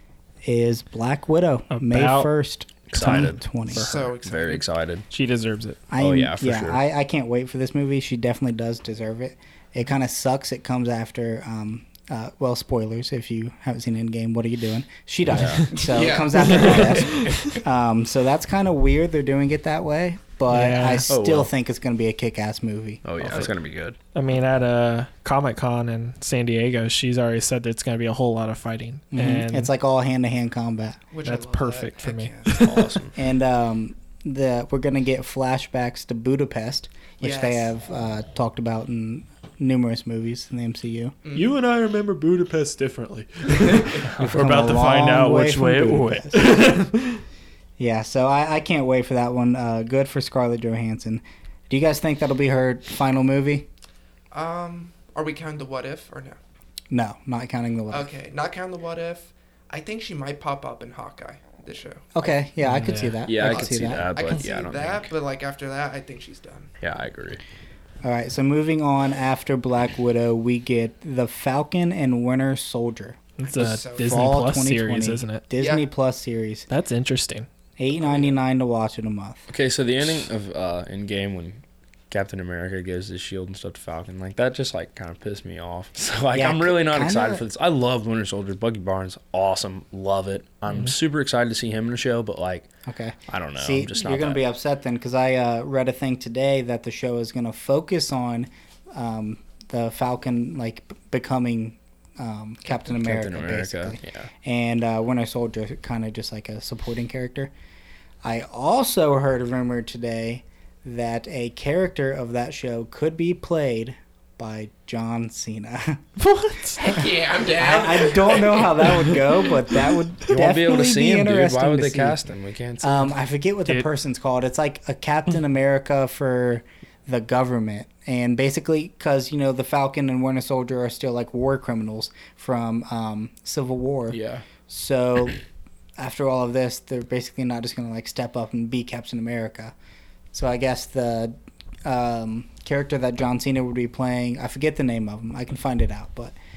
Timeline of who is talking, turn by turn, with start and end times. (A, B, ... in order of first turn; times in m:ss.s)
0:00.4-0:03.9 A
0:01.7-0:02.3 B
0:02.9-0:05.0 C
0:03.0-0:04.1 B
0:03.7-0:04.6 D
0:05.1-0:05.8 B
0:05.9-0:23.4 A
0:06.0-0:06.8 C
0:15.3-0:15.7 C
0:15.4-0:15.6 B
0:15.7-0:17.6 D
0:16.5-0:17.5 B
0:20.5-0:21.1 B
0:21.1-0:21.5 C
0:23.0-0:24.0 C
0:24.1-0:29.7 B
0:29.1-0:31.0 A
0:31.1-0:32.8 D
0:31.2-0:32.8 B
0:32.6-0:33.1 C
0:33.2-0:41.1 A
0:37.2-0:37.7 D
0:41.2-0:41.5 D
0:41.3-0:47.2 B
0:44.2-0:46.5 A
0:47.8-0:53.7 A
0:54.3-0:56.4 D
0:56.9-0:58.1 A
0:57.9-1:02.4 D
1:02.1-1:04.4 A
1:02.6-1:03.2 B
1:03.2-1:05.1 C
1:03.4-1:06.7 D
1:06.8-1:07.4 C
1:08.0-1:13.2 A
1:13.4-1:15.4 B
1:13.4-1:14.3 D
1:14.0-1:16.7 A
1:15.6-1:15.9 D
1:16.7-1:17.5 B
1:17.8-1:19.4 A
1:18.0-1:18.3 D
1:19.5-1:32.7 C
1:26.3-1:27.4 A
1:32.8-1:47.5 A
1:33.3-1:34.4 C
1:42.6-1:43.0 D
1:43.0-1:44.3 C
1:48.2-1:56.0 A
1:56.2-1:56.9 B
1:56.8-1:59.2 D
1:56.9-2:02.2 A
2:00.3-2:03.1 C
2:02.8-2:15.4 A
2:14.1-2:14.4 C
2:16.0-2:19.7 A
2:20.3-2:26.3 A